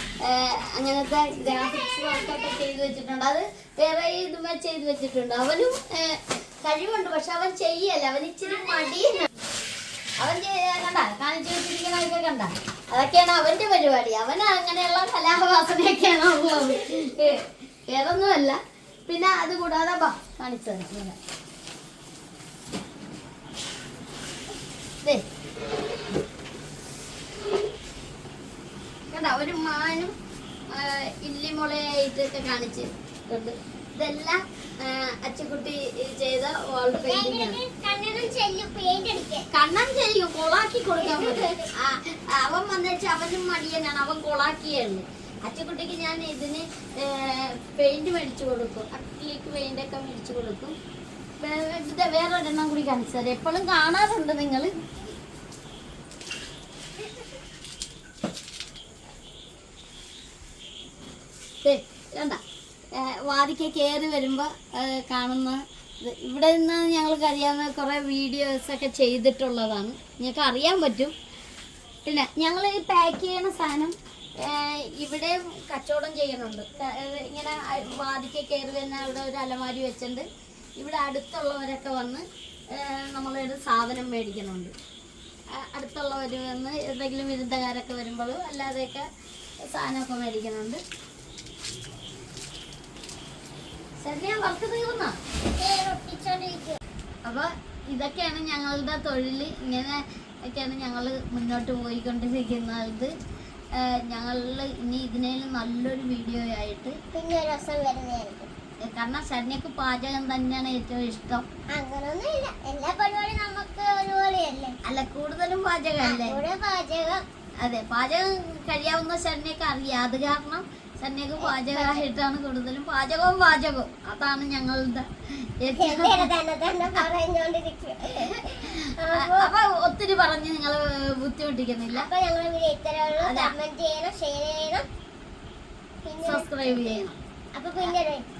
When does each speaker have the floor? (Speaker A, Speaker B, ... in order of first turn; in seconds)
Speaker A: 0.2-9.3, 10.2-21.1, 29.1-30.1, 30.7-37.6, 39.5-50.8, 51.4-54.7, 61.6-62.4, 62.9-71.1, 72.0-84.7, 85.6-89.0, 89.7-90.8, 94.0-95.2, 97.2-103.1, 103.7-107.0, 108.8-111.4, 114.8-116.4, 117.6-125.1, 125.6-126.3, 128.4-132.1, 133.2-133.5, 136.2-137.2
Speaker B: 1.4-2.6, 8.4-9.2, 36.9-39.5, 41.0-41.7, 95.6-96.8, 107.1-108.5, 111.7-114.7, 116.0-117.2, 121.4-122.0, 125.7-129.5, 131.9-134.8, 136.0-138.2